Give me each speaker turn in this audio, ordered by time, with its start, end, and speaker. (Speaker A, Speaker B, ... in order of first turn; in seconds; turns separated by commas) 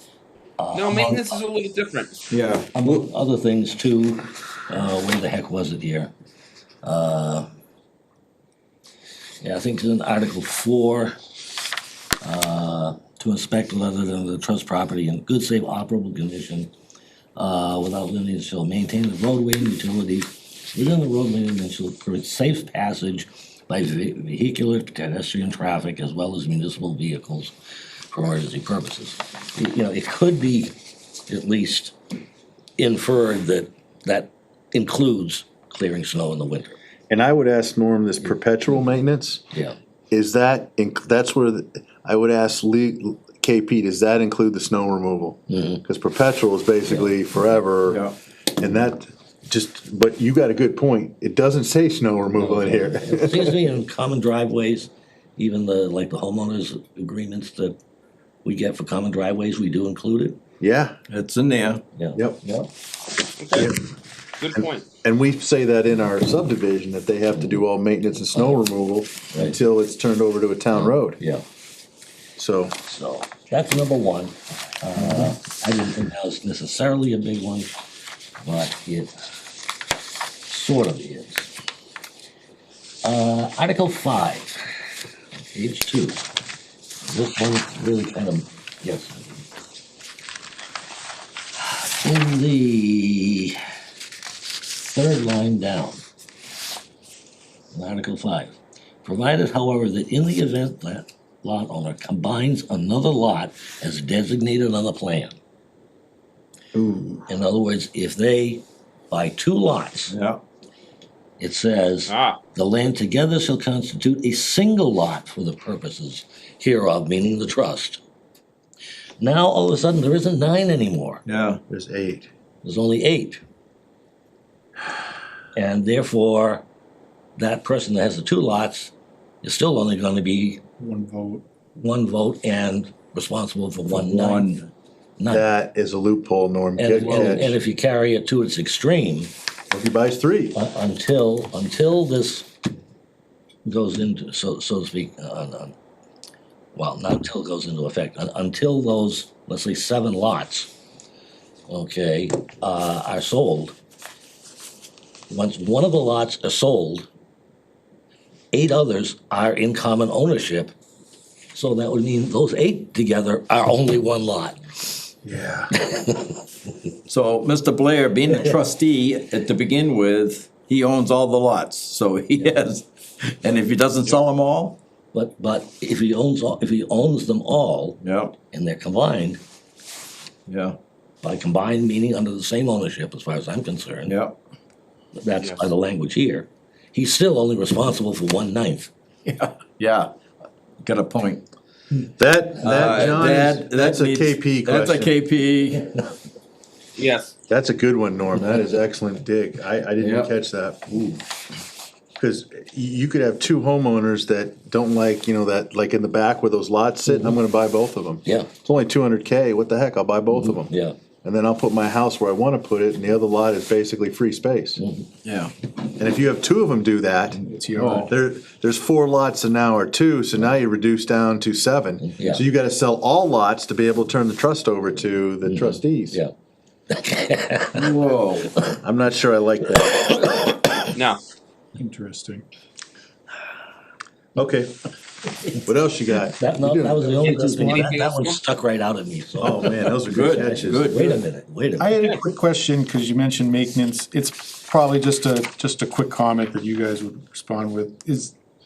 Speaker A: 0.6-1.4, Speaker B: 0.7-2.2, Speaker C: 2.3-3.0, Speaker A: 2.7-6.1, Speaker A: 6.8-7.5, Speaker A: 9.4-11.2, Speaker A: 12.2-16.7, Speaker A: 17.4-27.5, Speaker A: 28.1-30.7, Speaker A: 31.3-31.9, Speaker A: 32.8-36.8, Speaker D: 37.1-39.4, Speaker D: 40.1-53.6, Speaker A: 45.5-45.8, Speaker A: 46.9-47.1, Speaker C: 47.9-48.1, Speaker A: 52.4-57.8, Speaker A: 58.4-60.4, Speaker D: 60.6-61.0, Speaker C: 61.1-61.8, Speaker D: 62.1-62.4, Speaker B: 63.4-63.7, Speaker D: 63.5-63.8, Speaker B: 64.4-64.8, Speaker D: 64.5-71.2, Speaker A: 70.7-71.4, Speaker D: 72.4-72.7, Speaker A: 72.8-77.7, Speaker A: 78.4-79.1, Speaker A: 80.5-81.5, Speaker A: 83.0-84.6, Speaker A: 85.4-86.2, Speaker A: 87.0-89.4, Speaker A: 91.6-93.6, Speaker A: 94.8-96.0, Speaker A: 97.7-105.3, Speaker D: 106.7-107.3, Speaker A: 107.3-110.1, Speaker C: 110.1-110.4, Speaker A: 111.4-118.0, Speaker B: 112.1-112.4, Speaker A: 119.2-121.2, Speaker C: 121.3-121.6, Speaker D: 121.7-122.3, Speaker A: 122.6-123.4, Speaker A: 125.5-126.6, Speaker A: 127.3-128.9, Speaker A: 129.4-130.6, Speaker E: 130.8-131.4, Speaker A: 131.8-134.5, Speaker C: 133.9-134.7, Speaker A: 135.2-135.4, Speaker D: 135.3-137.6, Speaker A: 136.8-139.3, Speaker C: 137.0-137.4, Speaker D: 139.7-140.6, Speaker A: 140.5-142.5, Speaker A: 143.7-145.7, Speaker A: 146.7-150.7, Speaker A: 151.7-153.8, Speaker A: 155.3-157.1, Speaker A: 158.5-160.7, Speaker A: 161.5-164.6, Speaker E: 165.2-165.7, Speaker A: 165.7-166.4, Speaker C: 167.1-174.8, Speaker A: 175.1-178.0, Speaker C: 178.0-178.3, Speaker A: 178.5-179.4, Speaker C: 180.5-180.8, Speaker A: 181.2-184.1, Speaker C: 184.0-184.3, Speaker A: 185.1-188.9, Speaker C: 189.2-190.1, Speaker C: 190.8-191.4, Speaker D: 192.2-195.2, Speaker C: 192.6-196.1, Speaker B: 197.0-197.3, Speaker D: 197.5-201.2, Speaker C: 200.0-200.3, Speaker D: 202.2-214.8, Speaker A: 208.2-208.5, Speaker A: 210.3-210.9, Speaker A: 214.8-215.1, Speaker C: 215.2-215.5, Speaker D: 216.0-217.4, Speaker E: 217.4-218.1, Speaker C: 217.8-218.1, Speaker D: 218.1-226.2, Speaker A: 222.0-222.4, Speaker A: 225.4-226.3, Speaker A: 226.9-227.8, Speaker C: 227.7-228.5, Speaker D: 228.8-230.1, Speaker A: 230.0-230.6, Speaker B: 230.9-231.2, Speaker E: 231.8-232.4, Speaker D: 234.3-234.7, Speaker D: 235.6-237.7, Speaker A: 236.2-242.0, Speaker E: 237.2-237.9, Speaker B: 237.2-238.4, Speaker D: 239.4-241.0, Speaker C: 240.1-241.2, Speaker E: 241.8-248.3